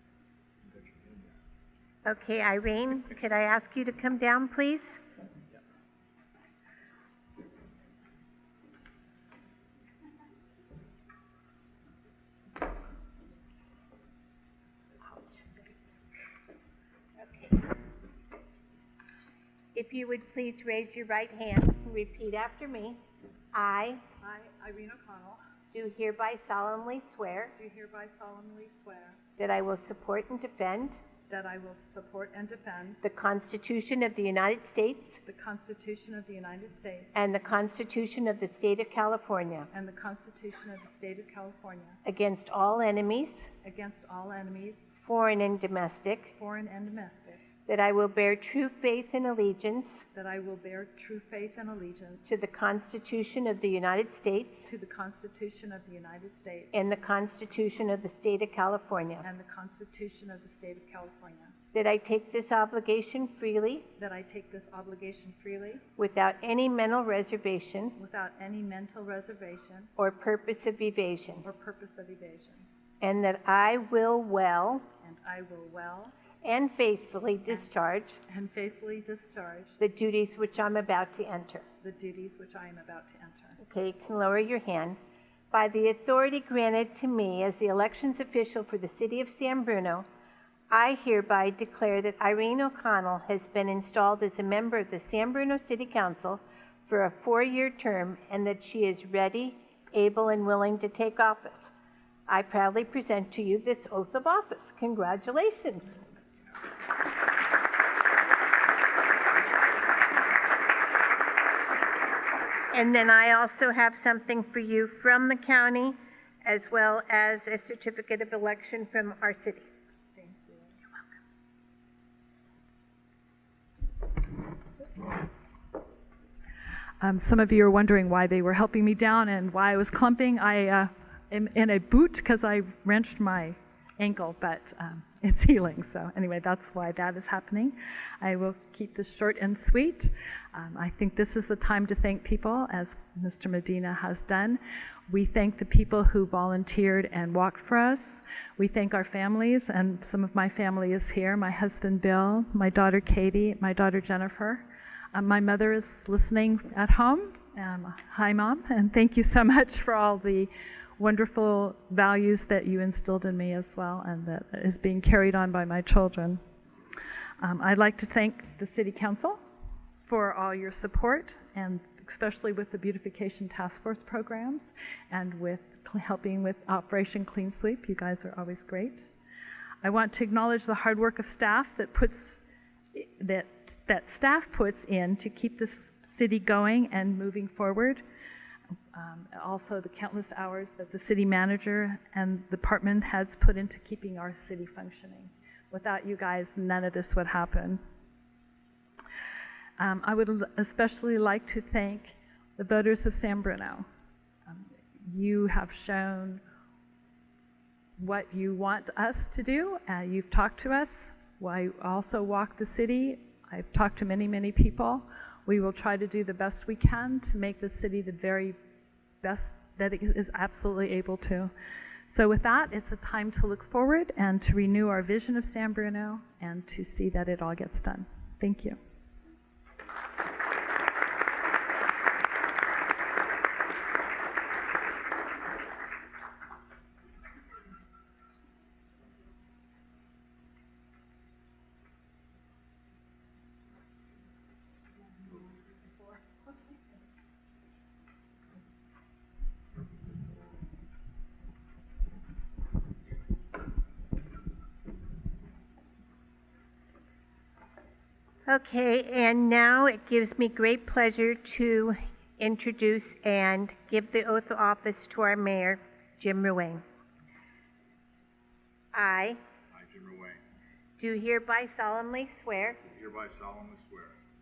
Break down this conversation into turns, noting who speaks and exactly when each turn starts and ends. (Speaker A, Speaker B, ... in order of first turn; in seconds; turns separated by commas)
Speaker A: 0.6-1.4, Speaker B: 2.0-5.0, Speaker B: 17.2-17.7, Speaker B: 19.7-23.0, Speaker B: 23.5-24.0, Speaker C: 24.2-25.4, Speaker B: 25.7-27.5, Speaker C: 27.6-29.2, Speaker B: 29.4-31.0, Speaker C: 31.3-33.0, Speaker B: 33.0-35.2, Speaker C: 35.2-37.1, Speaker B: 37.1-39.7, Speaker C: 39.7-42.0, Speaker B: 42.0-43.5, Speaker C: 43.6-44.9, Speaker B: 45.0-46.3, Speaker C: 46.4-47.4, Speaker B: 47.6-50.0, Speaker C: 50.1-52.2, Speaker B: 52.2-54.7, Speaker C: 54.6-56.7, Speaker B: 56.7-59.2, Speaker C: 59.2-61.5, Speaker B: 61.7-63.9, Speaker C: 64.0-65.8, Speaker B: 66.0-68.0, Speaker C: 68.0-69.9, Speaker B: 70.0-71.4, Speaker C: 71.4-72.7, Speaker B: 73.0-74.8, Speaker C: 75.0-76.1, Speaker B: 76.4-78.2, Speaker C: 78.3-79.8, Speaker B: 79.8-81.6, Speaker C: 81.8-83.6, Speaker B: 83.6-85.0, Speaker B: 85.5-90.1, Speaker B: 90.7-101.7, Speaker B: 102.3-105.9, Speaker B: 112.7-119.7, Speaker C: 120.1-120.8, Speaker C: 127.0-166.4, Speaker C: 167.4-169.4, Speaker C: 170.1-179.1, Speaker C: 179.8-182.4, Speaker C: 182.9-188.0, Speaker C: 188.9-197.8, Speaker C: 199.8-203.8, Speaker C: 204.4-206.4, Speaker C: 208.0-218.6, Speaker C: 219.2-221.5, Speaker C: 222.1-228.8, Speaker B: 258.5-266.8, Speaker B: 268.9-269.4, Speaker A: 269.7-270.4, Speaker B: 271.0-272.8, Speaker A: 272.8-274.2